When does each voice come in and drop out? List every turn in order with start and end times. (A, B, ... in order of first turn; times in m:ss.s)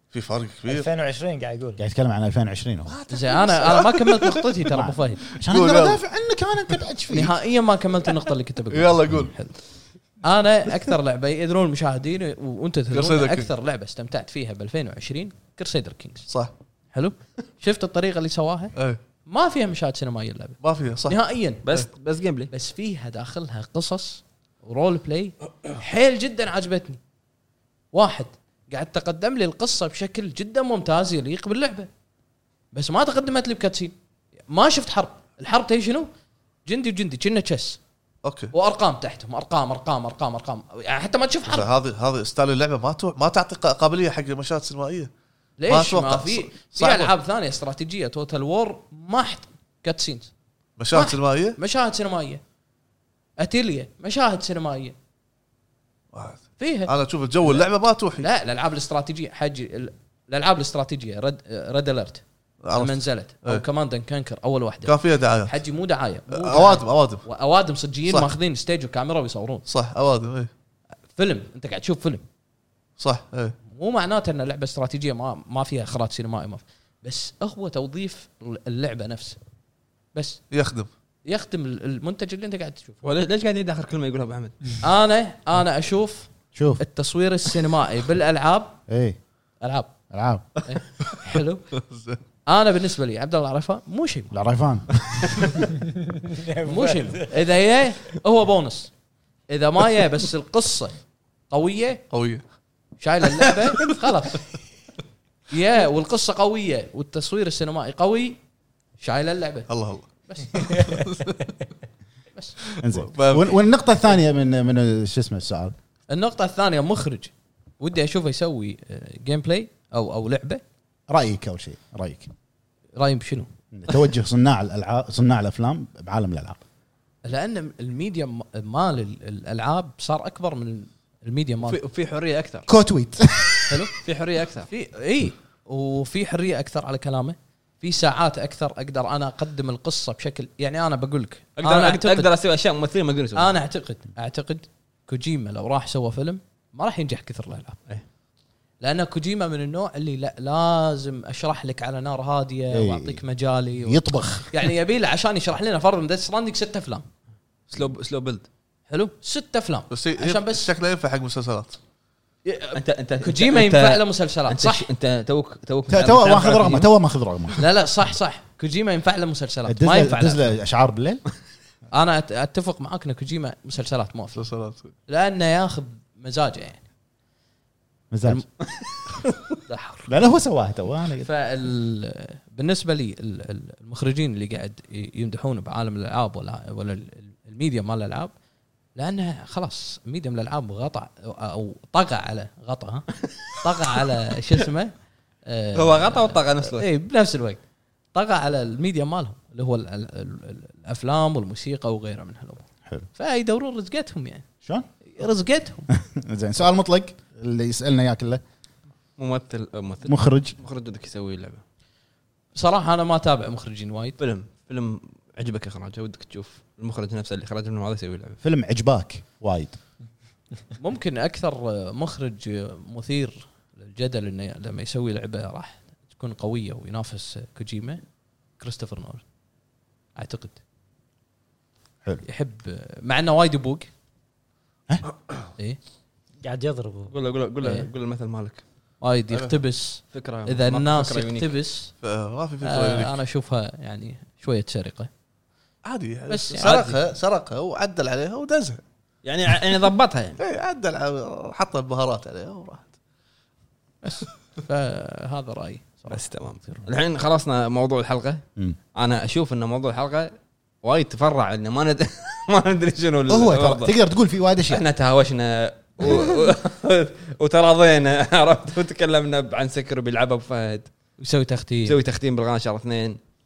0:00.1-0:00.9 A
0:00.6-0:01.8 B
0:01.8-0:02.9 C
0:02.9-0:04.4 A
0:03.1-0:05.2 D
0:04.7-0:07.4 C
0:05.3-0:06.0 A
0:07.1-0:09.6 D
0:08.7-0:09.3 A
0:10.2-0:16.3 D
0:12.9-0:13.5 A
0:16.9-0:21.7 D
0:20.6-0:21.2 A
0:21.6-0:22.5 E
0:22.5-0:27.0 D
0:27.9-0:31.9 D
0:32.7-0:33.9 D
0:34.5-0:36.1 D
0:36.6-0:37.8 D
0:38.2-0:38.5 A
0:38.5-0:41.7 D
0:41.4-0:45.1 A
0:45.6-0:50.3 D
0:45.7-0:47.1 A
0:50.8-0:51.6 A
0:50.9-0:52.4 D
0:53.4-0:54.9 D
0:56.1-0:58.3 A
0:56.6-0:57.7 D
0:58.2-1:02.2 D
1:02.6-1:03.6 A
1:02.7-1:09.6 D
1:04.8-1:05.6 A
1:06.3-1:07.2 A
1:08.1-1:08.3 A
1:09.6-1:10.5 A
1:11.1-1:12.2 D
1:13.0-1:13.5 A
1:13.7-1:19.4 D
1:20.1-1:20.4 D
1:20.5-1:20.9 A
1:21.2-1:23.0 D
1:23.0-1:24.8 E
1:24.8-1:28.8 D
1:26.5-1:26.8 C
1:28.9-1:29.2 C
1:29.6-1:29.9 D
1:30.1-1:30.4 C
1:30.6-1:31.7 D
1:31.7-1:32.2 A
1:32.4-1:34.3 D
1:34.3-1:35.3 C
1:36.1-1:37.4 B
1:36.6-1:38.9 D
1:39.5-1:41.0 D
1:41.5-1:42.0 D
1:42.1-1:42.4 A
1:43.0-1:44.5 D
1:43.4-1:44.0 A
1:45.5-1:48.4 D
1:49.0-1:49.7 D
1:49.7-1:51.4 A
1:50.2-1:50.9 D
1:52.6-1:53.6 A
1:52.8-1:55.7 C
1:56.1-2:00.6 D
2:01.1-2:02.3 C
2:03.0-2:03.5 D
2:03.7-2:06.6 C
2:07.2-2:11.8 D
2:11.6-2:12.7 E
2:12.7-2:13.8 C
2:13.7-2:13.9 D
2:14.0-2:14.7 E
2:14.7-2:22.3 D
2:21.6-2:23.6 E
2:23.4-2:27.8 D
2:28.8-2:37.0 D
2:32.7-2:33.2 C
2:33.8-2:34.6 C
2:37.7-2:38.5 E
2:38.9-2:40.7 D
2:39.9-2:41.8 A
2:42.4-2:44.9 D
2:42.7-2:46.9 E
2:45.9-2:47.6 C
2:47.6-2:50.5 D
2:49.6-2:51.2 C
2:51.9-2:54.4 D
2:54.3-2:54.9 A
2:55.1-2:56.8 D
2:58.1-2:58.4 C
2:59.7-3:00.1 D
3:00.1-3:01.3 C
3:01.2-3:08.3 D
3:09.0-3:14.9 D
3:15.4-3:17.6 D
3:15.7-3:16.9 E
3:18.1-3:24.4 D
3:25.1-3:25.9 D
3:25.9-3:28.4 C
3:29.2-3:31.6 E
3:30.0-3:30.6 C
3:32.5-3:34.2 D
3:34.2-3:38.4 E
3:38.4-3:39.8 C
3:40.8-3:48.0 D
3:48.6-3:49.2 D
3:50.2-3:50.6 D
3:52.2-3:53.9 D
3:56.4-3:57.1 B
3:57.1-3:58.6 E
3:59.0-4:01.9 D
4:00.1-4:01.5 E
4:02.0-4:03.2 A
4:02.6-4:05.1 D
4:05.8-4:08.8 A
4:06.3-4:06.9 D
4:06.6-4:06.9 E
4:09.2-4:10.4 E
4:10.4-4:12.9 A
4:14.0-4:16.8 D
4:16.1-4:18.4 E
4:18.9-4:20.3 E
4:20.8-4:23.9 E
4:23.3-4:24.8 C
4:24.7-4:30.9 E
4:31.2-4:32.0 D
4:31.8-4:33.2 E